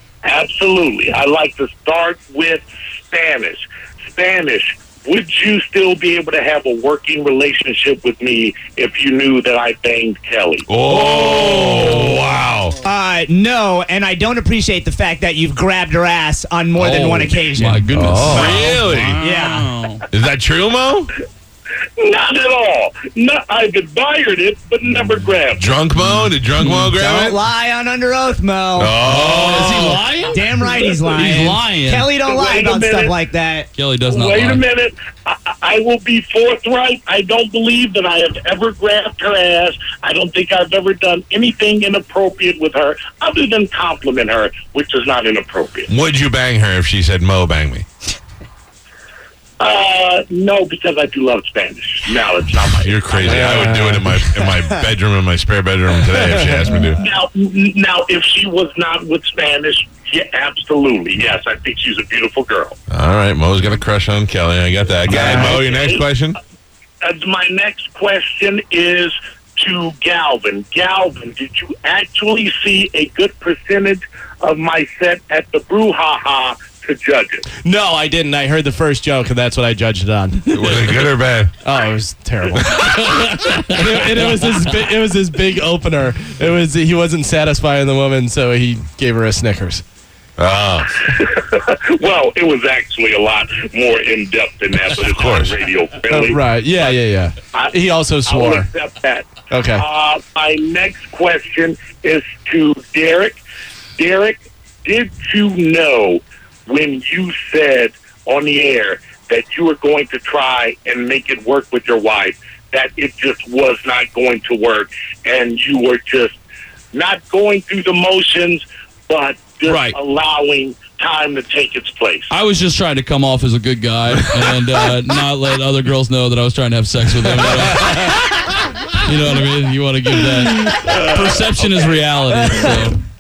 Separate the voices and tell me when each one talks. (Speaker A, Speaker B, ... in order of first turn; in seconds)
Speaker A: 0.2-10.7, 22.0-25.6, 32.2-33.1, 34.1-45.9, 49.6-53.7, 57.0-62.8, 65.2-66.0, 67.0-77.4, 91.1-97.7, 98.2-103.4, 104.0-116.3, 116.9-122.3
Speaker B: 10.7-12.8, 18.3-19.2, 20.1-21.1, 25.6-27.4, 28.8-30.0, 45.9-47.9, 52.8-57.0, 62.9-66.4, 80.5-81.5, 90.4-91.0, 95.0-95.5
Speaker C: 12.8-18.6, 19.2-19.7, 26.7-33.7
Speaker D: 16.8-20.0, 26.1-26.9, 29.0-32.1, 33.8-34.6, 82.8-84.5, 119.7-120.0, 122.3-128.3, 128.9-133.0
Speaker E: 18.0-18.4, 53.2-54.1, 56.1-56.6, 65.1-65.5, 77.6-80.5, 81.6-83.0, 83.7-89.8, 96.1-98.7, 99.5-99.8